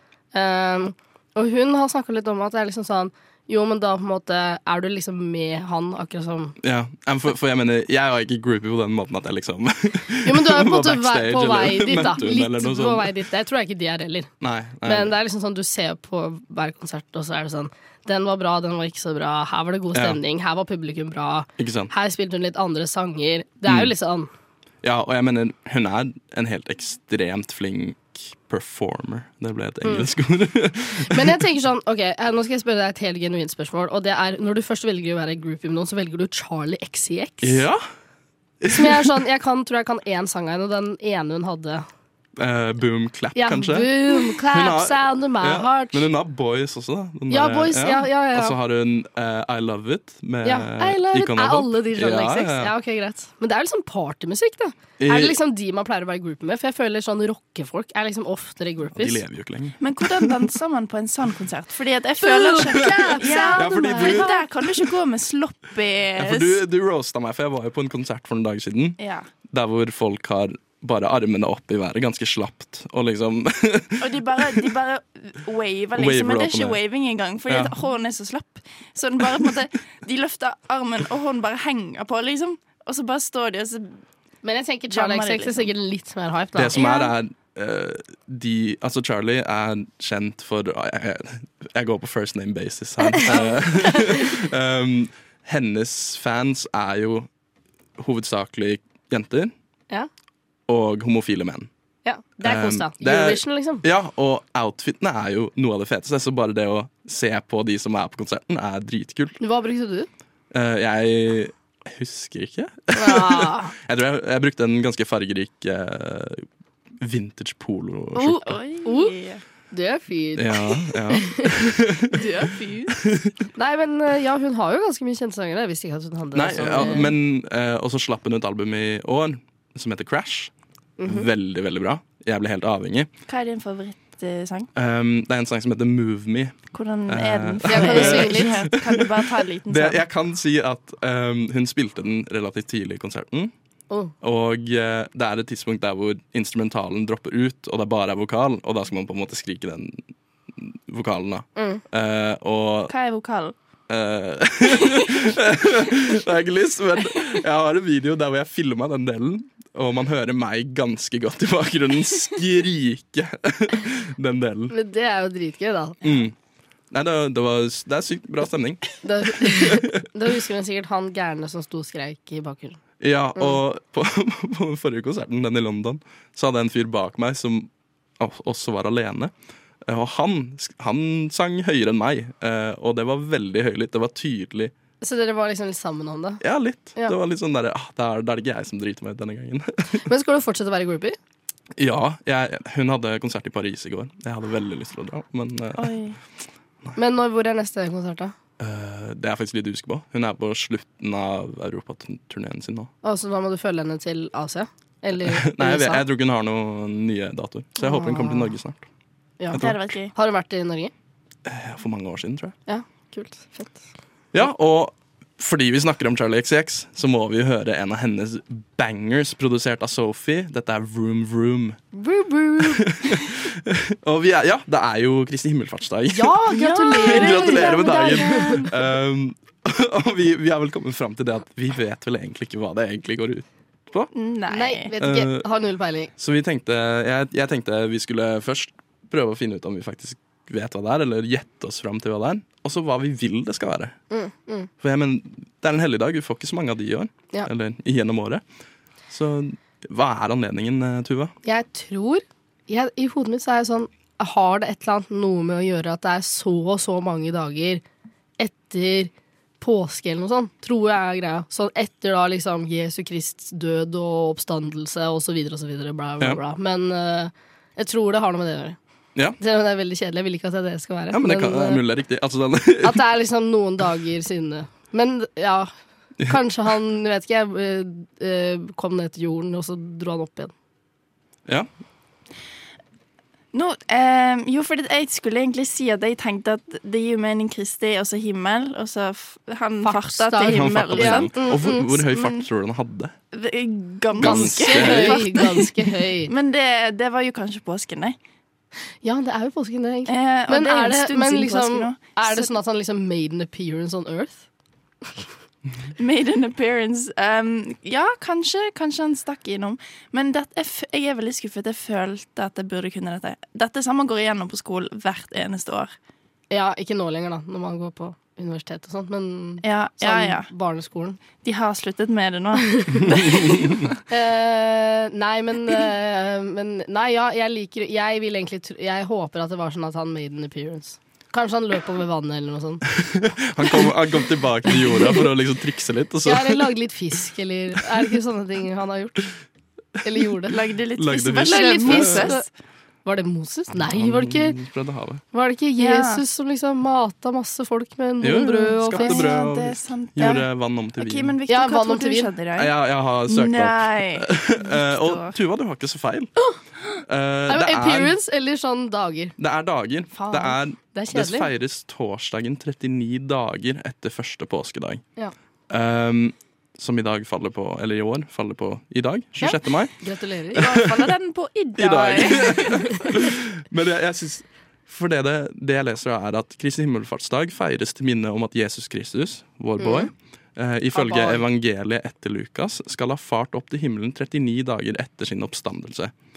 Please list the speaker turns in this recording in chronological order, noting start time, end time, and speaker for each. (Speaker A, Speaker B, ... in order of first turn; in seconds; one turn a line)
Speaker A: 0.3-6.5
Speaker B: 6.6-13.1
Speaker A: 10.2-14.3
Speaker B: 14.4-15.2
Speaker A: 14.8-24.3
Speaker B: 21.6-21.9
Speaker B: 23.7-23.9
Speaker B: 24.8-31.4
Speaker A: 29.8-30.1
Speaker A: 31.1-37.6
Speaker B: 37.4-37.8
Speaker B: 38.6-39.1
Speaker A: 38.7-41.8
Speaker B: 42.4-52.7
Speaker A: 43.4-46.1
Speaker A: 47.3-48.6
Speaker A: 50.4-59.2
Speaker B: 55.0-55.4
Speaker B: 58.9-60.3
Speaker C: 59.8-66.6
Speaker A: 62.2-64.4
Speaker B: 63.4-64.4
Speaker B: 66.2-69.0
Speaker C: 69.0-69.3
Speaker B: 69.5-74.7
Speaker C: 74.0-84.0
Speaker B: 76.0-76.8
Speaker B: 77.5-77.8
Speaker A: 84.4-87.1
Speaker C: 84.9-85.7
Speaker B: 86.5-97.3
Speaker A: 93.1-94.3
Speaker B: 98.0-99.5
Speaker B: 100.7-101.7
Speaker A: 102.0-103.8
Speaker B: 102.4-109.4
Speaker A: 109.4-110.1
Speaker B: 110.5-116.5
Speaker A: 112.9-113.7
Speaker B: 117.0-118.6
Speaker A: 118.1-119.1
Speaker C: 118.4-119.4
Speaker A: 119.7-121.5
Speaker B: 120.3-122.1
Speaker C: 122.1-123.0
Speaker B: 123.0-123.3
Speaker A: 123.6-127.1
Speaker B: 126.3-130.5
Speaker A: 131.0-131.3
Speaker B: 131.1-133.1
Speaker C: 133.3-134.7
Speaker B: 134.8-143.5
Speaker C: 136.7-140.0
Speaker A: 137.7-138.6
Speaker B: 144.2-152.9
Speaker A: 151.6-151.8
Speaker C: 152.9-153.6
Speaker B: 153.9-164.7
Speaker A: 164.7-166.0
Speaker B: 166.0-166.3
Speaker B: 166.9-170.0
Speaker A: 169.0-172.8
Speaker B: 173.0-179.3
Speaker B: 179.8-184.7
Speaker A: 185.0-186.4
Speaker B: 186.4-190.0
Speaker A: 190.1-191.2
Speaker B: 191.8-196.0
Speaker C: 195.8-196.2
Speaker A: 197.0-198.3
Speaker B: 198.6-202.9
Speaker A: 203.0-206.0
Speaker B: 205.2-208.9
Speaker A: 207.8-208.5
Speaker A: 209.4-210.9
Speaker B: 209.5-209.8
Speaker C: 209.5-210.1
Speaker B: 211.4-212.6
Speaker A: 212.7-213.8
Speaker B: 214.3-221.8
Speaker A: 221.9-222.8
Speaker B: 222.6-234.1
Speaker A: 226.1-228.7
Speaker C: 226.5-228.8
Speaker C: 234.1-234.9
Speaker A: 234.5-236.1
Speaker B: 235.0-235.5
Speaker B: 236.2-244.0
Speaker A: 244.1-244.7
Speaker B: 244.8-248.4
Speaker B: 249.1-251.3
Speaker A: 251.4-257.8
Speaker A: 258.4-268.8
Speaker A: 269.4-271.8
Speaker B: 271.1-273.1
Speaker A: 272.8-275.7
Speaker A: 276.2-280.5
Speaker C: 283.5-291.6
Speaker A: 289.8-292.3
Speaker B: 290.5-293.1
Speaker C: 293.3-298.2
Speaker A: 294.2-296.3
Speaker B: 294.2-295.3
Speaker A: 299.0-304.4
Speaker C: 300.1-302.5
Speaker C: 306.0-315.9
Speaker A: 316.5-321.2
Speaker C: 319.6-320.5
Speaker C: 321.4-323.9
Speaker A: 322.7-323.2
Speaker A: 324.1-332.8
Speaker B: 333.0-336.7
Speaker A: 334.7-335.1
Speaker A: 336.3-339.3
Speaker A: 340.0-340.6
Speaker C: 340.5-342.5
Speaker B: 341.0-342.3
Speaker A: 341.4-342.5
Speaker A: 343.1-344.6
Speaker B: 343.8-345.2
Speaker A: 345.3-349.3
Speaker C: 345.8-346.2
Speaker B: 348.2-351.4
Speaker C: 348.9-355.4
Speaker A: 351.5-352.3
Speaker B: 352.6-356.3
Speaker B: 357.1-358.2
Speaker A: 357.5-359.4
Speaker B: 359.4-365.0
Speaker A: 360.1-361.5
Speaker B: 365.7-370.0
Speaker A: 369.4-370.6
Speaker B: 370.5-371.1
Speaker C: 370.6-373.1
Speaker B: 371.8-386.1
Speaker A: 379.8-380.1
Speaker A: 380.9-381.4